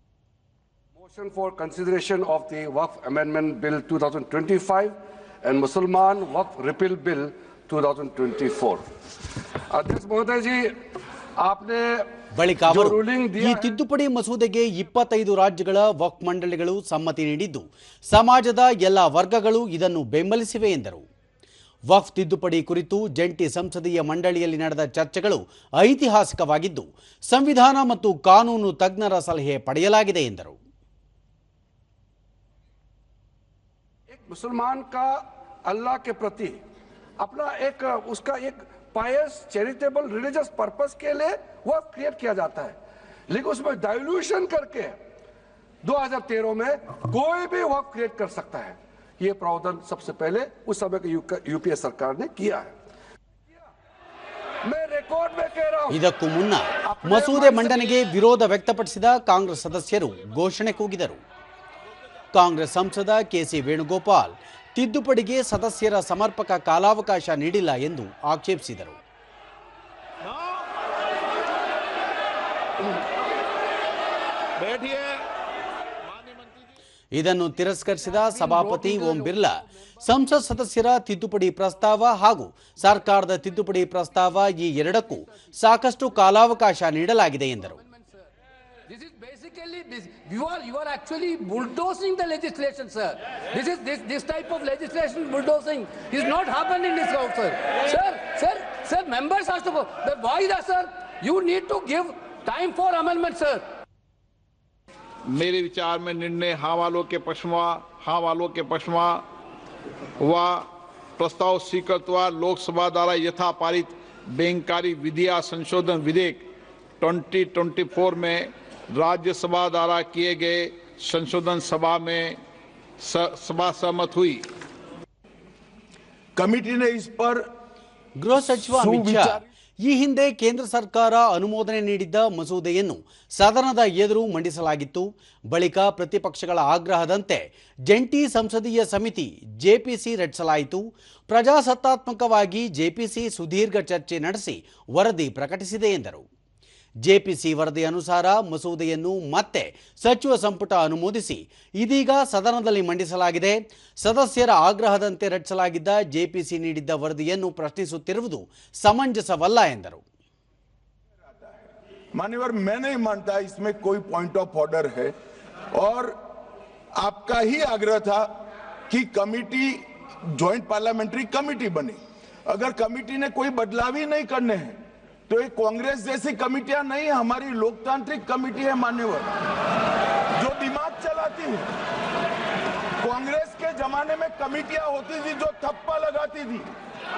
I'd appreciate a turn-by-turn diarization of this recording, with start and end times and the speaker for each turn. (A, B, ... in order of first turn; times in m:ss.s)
0:01.0-0:08.8 A
0:09.7-0:10.7 A
0:11.4-0:12.1 A
0:12.3-0:21.0 B
0:12.7-0:13.7 A
0:21.9-0:30.6 B
0:34.1-0:36.6 A
0:37.2-0:42.8 A
0:43.3-0:45.0 A
0:45.8-0:52.7 A
0:54.6-0:56.0 A
0:55.9-1:01.2 B
0:56.8-0:57.9 A
1:02.3-1:09.0 B
1:14.6-1:15.2 C
1:16.2-1:16.5 C
1:17.1-1:27.8 B
1:18.3-1:19.5 D
1:28.9-1:43.7 D
1:45.3-1:49.2 C
1:50.2-1:50.7 C
1:51.2-1:56.4 C
1:57.0-2:02.4 C
2:03.0-2:04.5 C
2:06.4-2:07.4 E
2:08.2-2:26.3 B
2:08.7-2:09.4 E
2:27.0-2:40.0 B
2:42.1-2:45.1 E
2:45.7-2:46.2 E
2:47.0-2:48.3 E
2:48.9-2:54.8 E
2:55.3-2:59.3 E
3:00.4-3:01.7 E
3:03.0-3:06.7 E